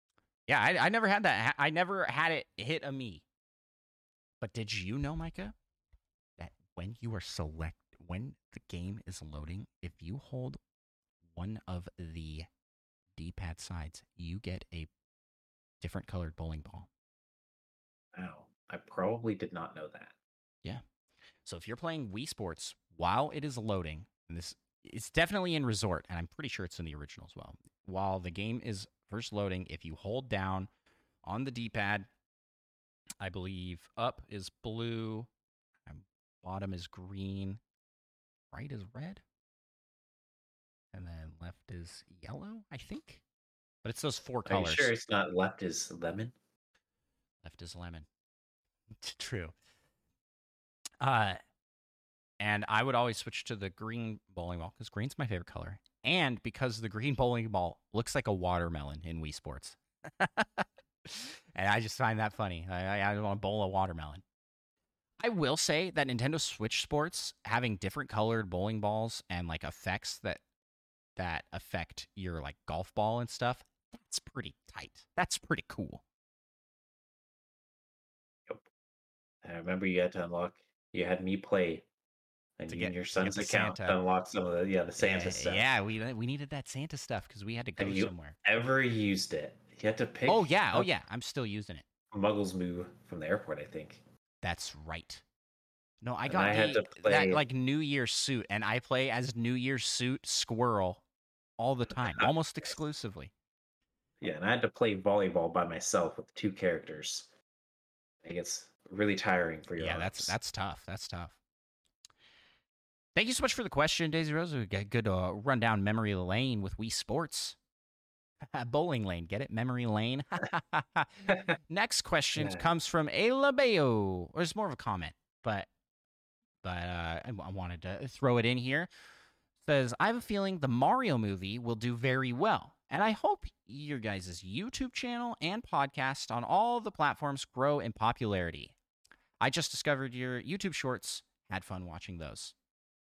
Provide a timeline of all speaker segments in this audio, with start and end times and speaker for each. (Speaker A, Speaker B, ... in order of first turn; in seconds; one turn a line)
Speaker A: 0.5-3.2
Speaker A: 4.4-5.5
Speaker A: 6.4-10.6
Speaker A: 11.3-12.5
Speaker A: 13.2-14.9
Speaker A: 15.8-16.9
Speaker B: 18.1-20.1
Speaker A: 21.4-30.7
Speaker A: 31.2-32.1
Speaker A: 33.2-35.3
Speaker A: 35.9-37.6
Speaker A: 38.5-39.2
Speaker A: 40.9-43.2
Speaker A: 43.8-44.9
Speaker B: 44.5-46.4
Speaker A: 47.4-48.1
Speaker A: 49.0-49.5
Speaker A: 51.0-51.4
Speaker A: 52.4-64.2
Speaker A: 65.2-70.4
Speaker A: 71.2-76.0
Speaker B: 79.4-81.9
Speaker B: 82.6-85.7
Speaker A: 82.7-84.0
Speaker A: 85.0-88.4
Speaker B: 87.8-90.9
Speaker A: 90.3-91.8
Speaker B: 92.1-94.0
Speaker A: 94.4-95.2
Speaker A: 96.0-101.0
Speaker B: 96.3-97.4
Speaker A: 101.6-103.3
Speaker B: 102.0-102.3
Speaker B: 104.2-107.3
Speaker B: 108.2-110.3
Speaker A: 109.8-111.4
Speaker A: 113.2-117.6
Speaker A: 118.5-125.7
Speaker B: 122.4-122.7
Speaker A: 126.6-128.9
Speaker A: 129.6-138.8
Speaker A: 139.4-142.6